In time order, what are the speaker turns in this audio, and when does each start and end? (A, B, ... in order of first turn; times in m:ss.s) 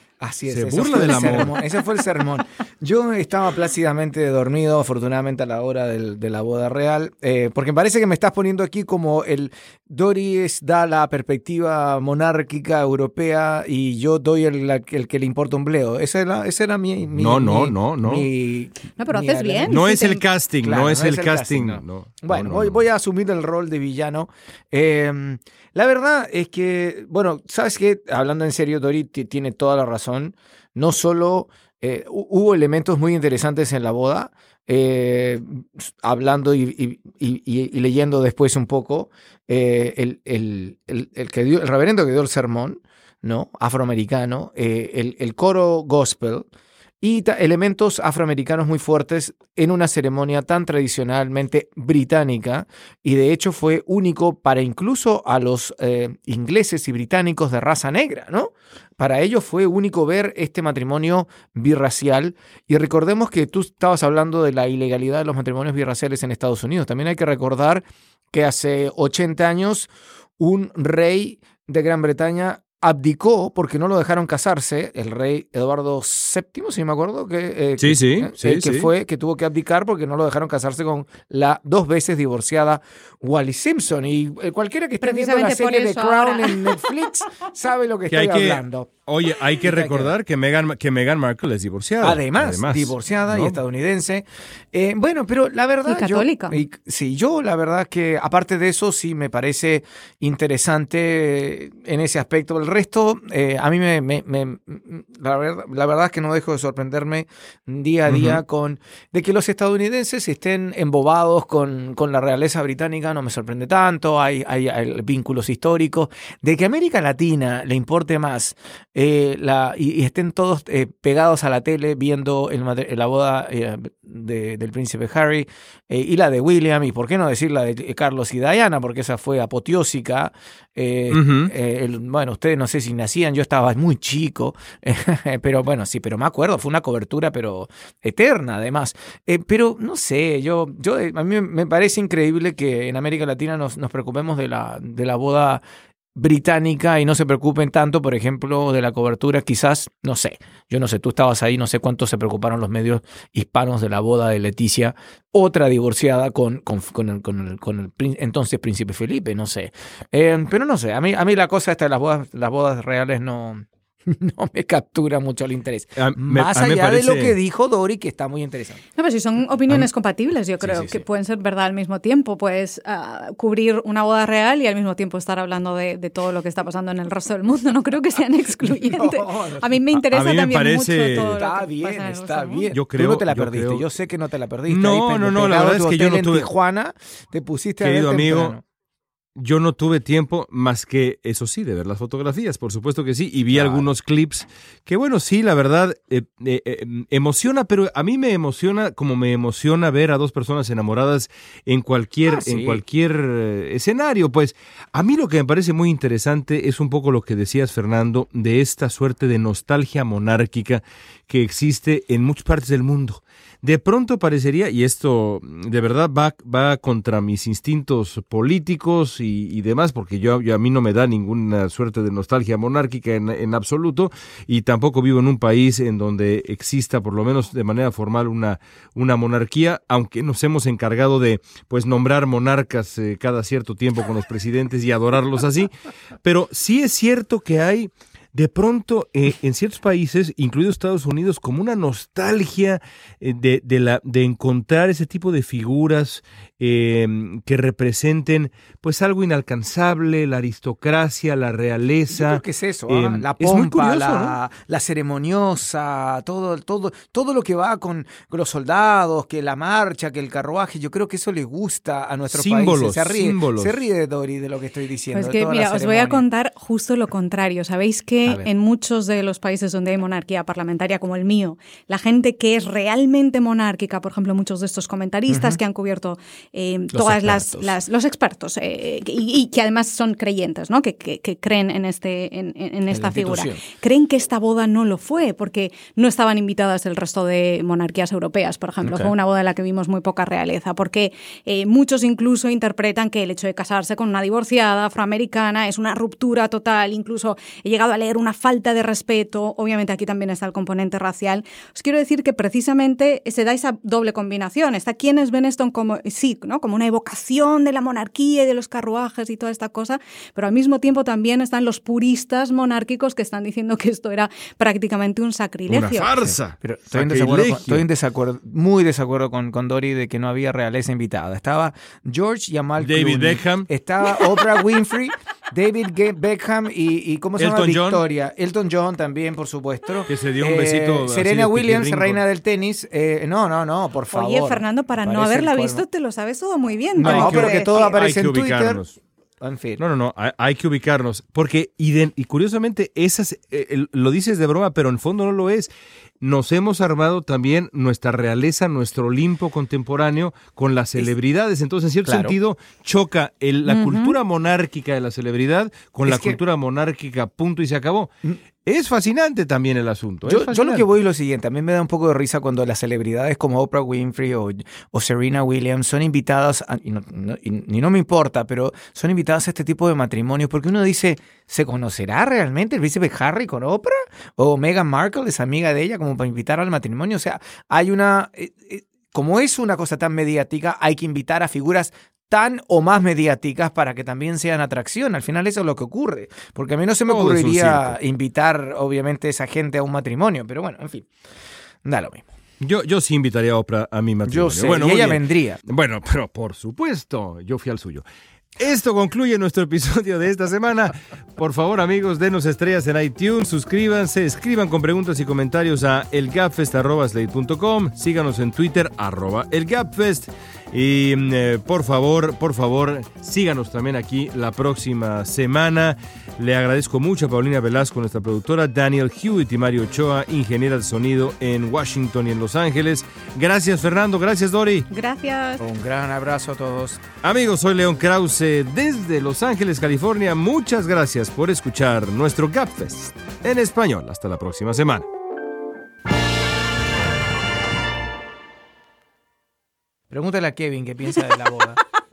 0:00.2-0:19.9 A
0:00.4-0:01.5 B
0:17.1-0:18.3 B
0:19.0-0:20.2 C
0:19.6-0:22.8 B
0:20.6-0:46.5 A
0:47.0-1:28.9 A
1:17.8-1:18.9 B
1:25.0-1:26.8 C
1:28.1-1:33.6 B
1:29.6-1:30.1 A
1:32.0-2:25.6 A
1:35.8-1:36.6 C
1:48.1-1:48.4 B
2:11.1-2:11.5 B
2:26.2-2:48.8 A
2:46.0-2:47.4 B
2:49.0-3:02.7 C
2:50.7-2:51.0 A
2:58.6-2:59.7 A
3:00.1-3:01.4 B
3:01.2-3:08.6 A
3:02.7-3:03.9 B
3:04.7-3:06.5 B
3:07.8-3:08.6 B
3:09.4-4:14.4 B
3:13.5-3:13.9 A
3:22.3-3:22.8 A
4:12.1-4:26.2 A
4:22.3-4:23.8 B
4:25.1-5:16.1 C
4:35.3-4:35.6 A
4:36.9-4:37.7 A
4:42.9-4:43.6 A
4:48.8-4:49.1 A
5:15.7-5:17.8 B
5:16.2-5:35.8 A
5:22.8-5:23.7 B
5:27.4-5:28.0 B
5:30.1-5:32.2 B
5:34.1-5:37.8 C
5:37.0-5:38.8 A
5:37.0-5:38.9 B
5:39.4-5:39.8 A
5:39.8-5:58.1 B
5:52.0-5:52.4 A
5:56.0-5:56.4 A
5:58.6-6:00.9 B
6:00.2-6:31.1 A
6:27.0-6:28.0 B
6:31.8-6:32.2 A
6:32.6-6:38.0 B
6:34.2-6:35.6 A
6:38.6-7:04.9 B
7:04.9-7:05.6 C
7:05.6-7:07.0 A
7:07.2-7:15.0 B
7:20.1-7:21.8 A